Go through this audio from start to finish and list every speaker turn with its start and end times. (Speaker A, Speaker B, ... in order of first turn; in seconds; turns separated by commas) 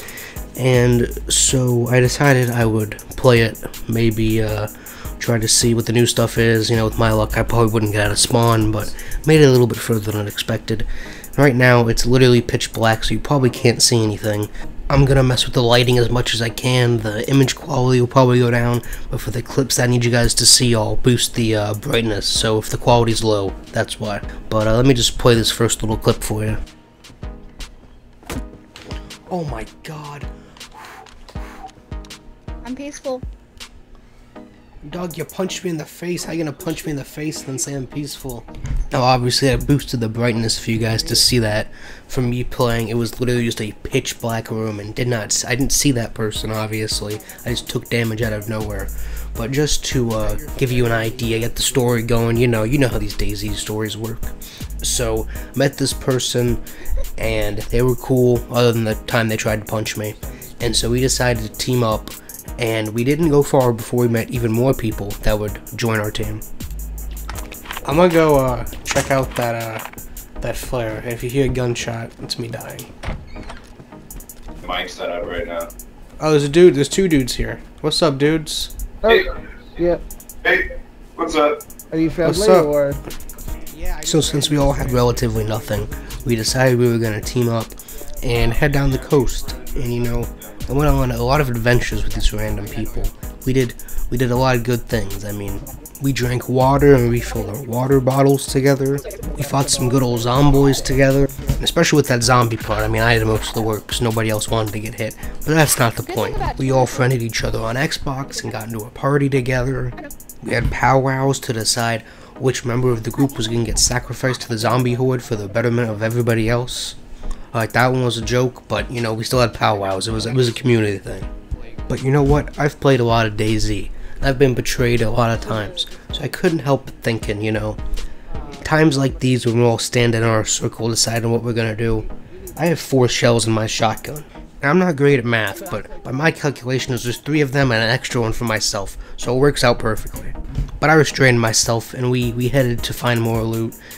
Speaker A: 0.6-26.6, Speaker A: 29.3-30.3, Speaker B: 32.6-33.2, Speaker A: 34.8-56.6, Speaker A: 57.2-66.4, Speaker A: 67.8-69.8, Speaker A: 70.4-72.9, Speaker C: 74.6-75.7, Speaker A: 76.2-78.7, Speaker C: 81.2-81.6, Speaker D: 81.9-83.0, Speaker A: 82.2-82.8, Speaker D: 83.7-86.3, Speaker A: 84.0-117.0, Speaker D: 88.0-88.3, Speaker C: 88.3-90.5, Speaker D: 99.2-101.6, Speaker B: 106.1-107.0, Speaker B: 113.2-113.6, Speaker A: 117.5-121.3, Speaker A: 121.9-127.8, Speaker D: 128.3-129.4, Speaker A: 128.6-143.8, Speaker D: 131.9-132.8, Speaker D: 135.3-137.0